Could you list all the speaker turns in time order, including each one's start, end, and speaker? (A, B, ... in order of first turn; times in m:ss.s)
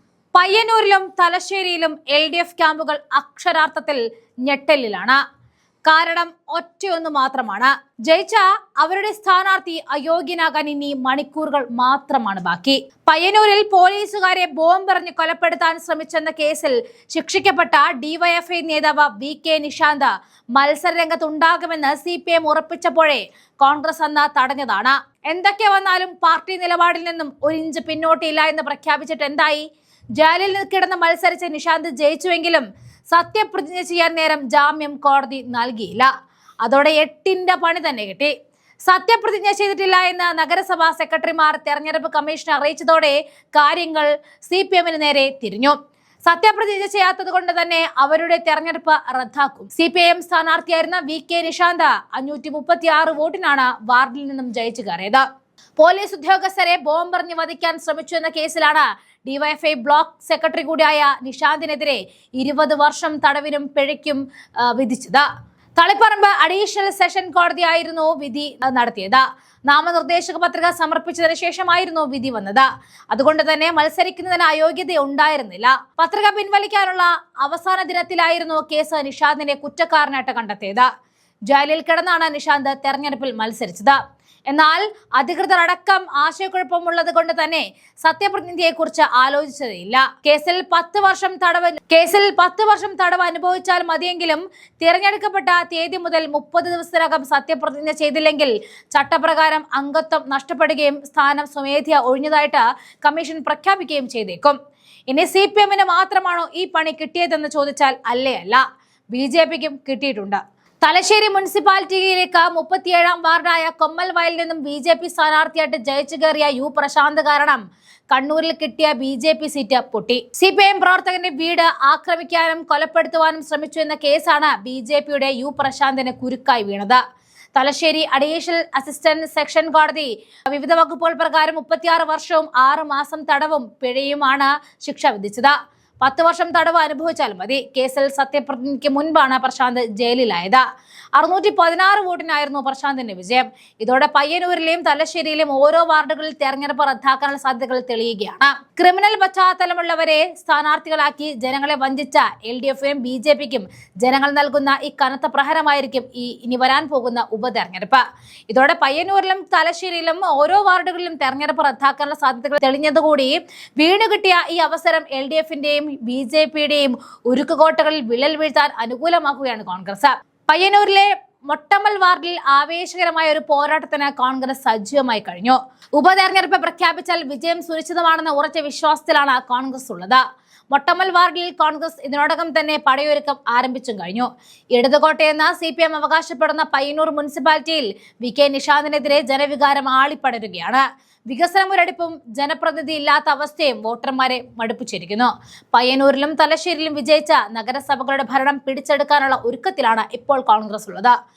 0:00.3-0:05.2 A
0:05.9-0:29.6 A
0:30.2-0:36.1 A
0:36.6-0:38.3 A
0:38.8-0:55.2 A
0:55.8-1:05.2 A
1:05.8-1:20.9 A
1:21.5-1:44.6 A
1:45.1-2:07.0 A
2:07.6-2:20.6 A
2:21.2-3:21.1 A